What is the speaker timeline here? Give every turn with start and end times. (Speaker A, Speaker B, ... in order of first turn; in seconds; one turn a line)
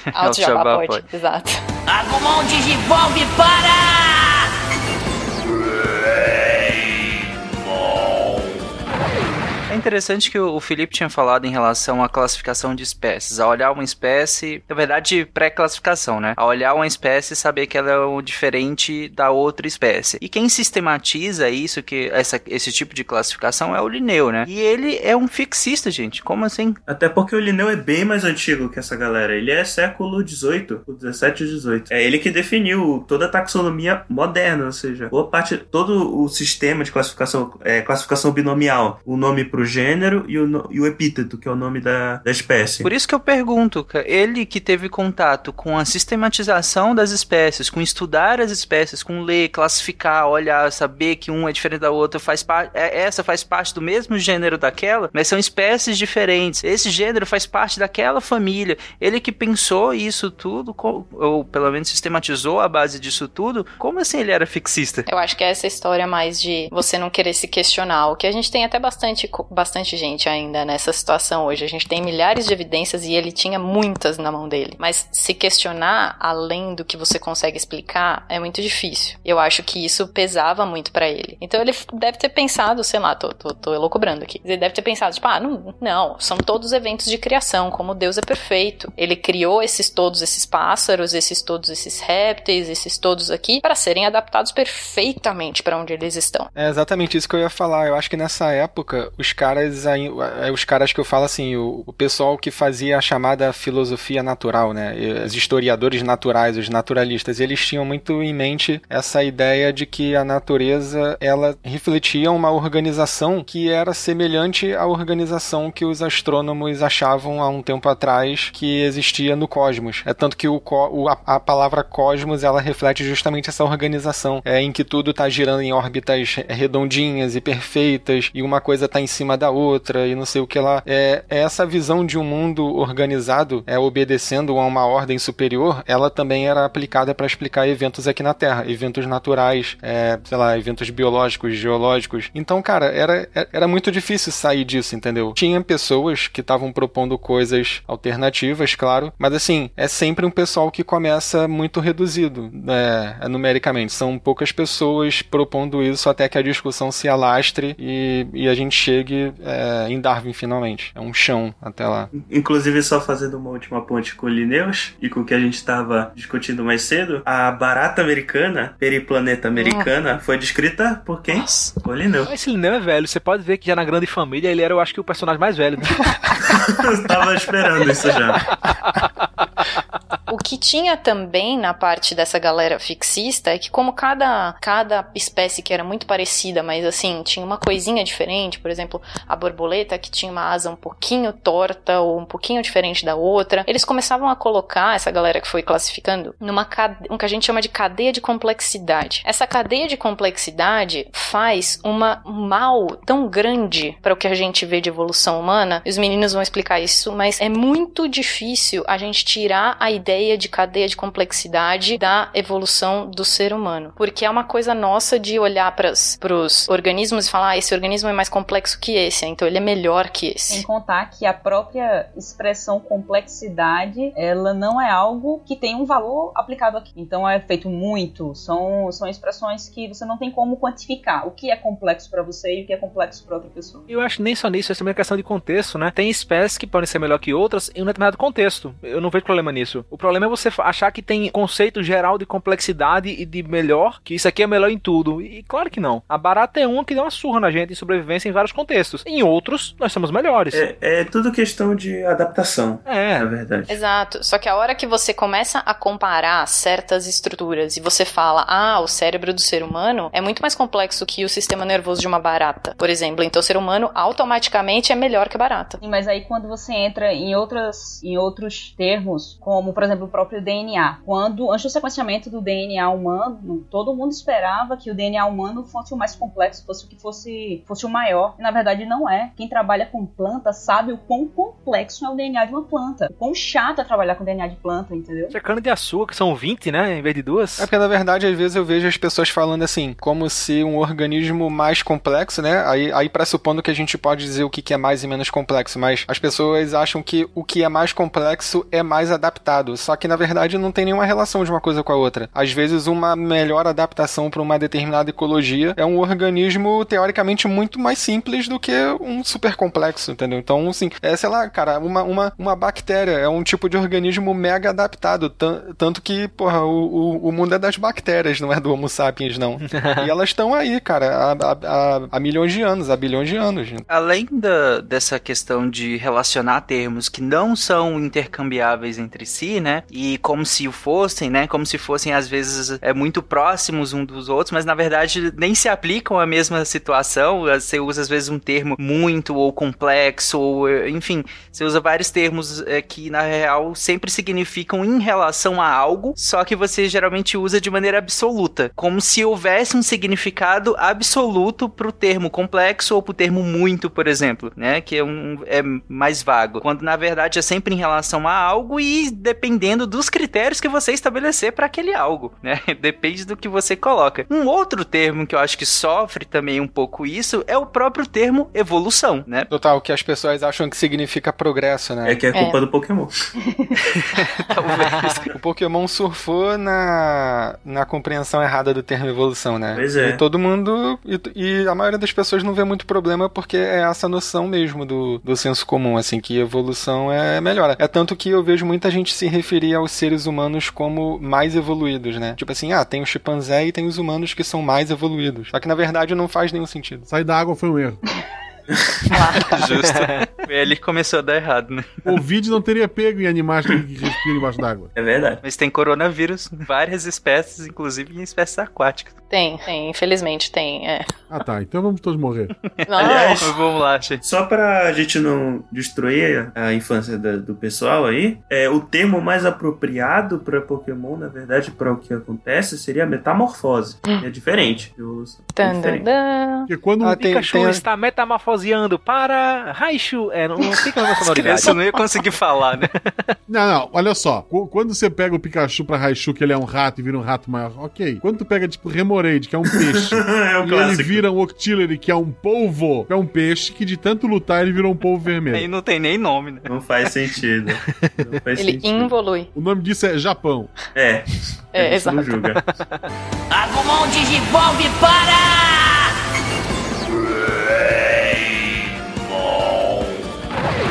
Speaker A: 0.1-1.0
Speaker B: 0.1-1.6
Speaker C: 1.9-4.4
Speaker C: 6.1-6.8
Speaker C: 7.6-8.3
Speaker A: 9.7-26.8
Speaker D: 26.9-42.9
Speaker A: 42.8-65.0
Speaker B: 65.1-96.5
Speaker E: 96.5-162.1
Speaker D: 162.1-172.3
Speaker B: 169.6-169.9
Speaker B: 171.4-171.7
Speaker F: 172.2-176.3
Speaker D: 176.4-178.4
Speaker F: 178.5-179.2
Speaker B: 180.3-220.6
Speaker G: 220.5-233.8
Speaker F: 233.9-250.6
Speaker D: 250.5-253.8
Speaker F: 252.8-253.3
Speaker B: 253.7-265.8
Speaker G: 265.8-285.3
Speaker F: 285.3-287.7
Speaker E: 287.6-323.8
Speaker F: 319.6-320.1
Speaker A: 323.9-369.5
Speaker E: 369.5-372.2
Speaker D: 372.0-373.1
Speaker G: 373.4-373.8
Speaker A: 374.3-375.1
Speaker F: 374.8-375.2
Speaker E: 375.3-397.1
Speaker D: 379.7-380.2
Speaker H: 397.1-398.0
Speaker B: 399.1-399.4
Speaker F: 399.5-400.4
Speaker A: 399.5-402.0
Speaker H: 402.0-404.9
Speaker D: 404.9-405.4
Speaker A: 405.4-409.1
Speaker B: 409.3-411.1
Speaker H: 411.3-412.5
Speaker B: 412.9-413.3
Speaker A: 412.9-414.2
Speaker D: 413.0-413.6
Speaker D: 414.2-426.1
Speaker B: 425.6-426.7
Speaker H: 426.7-427.2
Speaker E: 427.0-427.8
Speaker F: 427.2-431.9
Speaker A: 431.3-432.9
Speaker F: 433.1-433.3
Speaker H: 433.5-445.6
Speaker D: 439.9-441.2
Speaker A: 445.5-446.7
Speaker D: 446.7-449.1
Speaker F: 447.8-448.2
Speaker B: 448.6-449.5
Speaker H: 449.5-450.7
Speaker D: 450.9-452.6
Speaker B: 451.7-452.3
Speaker F: 452.5-453.1
Speaker C: 453.5-456.1
Speaker C: 457.1-458.5
Speaker C: 459.1-460.1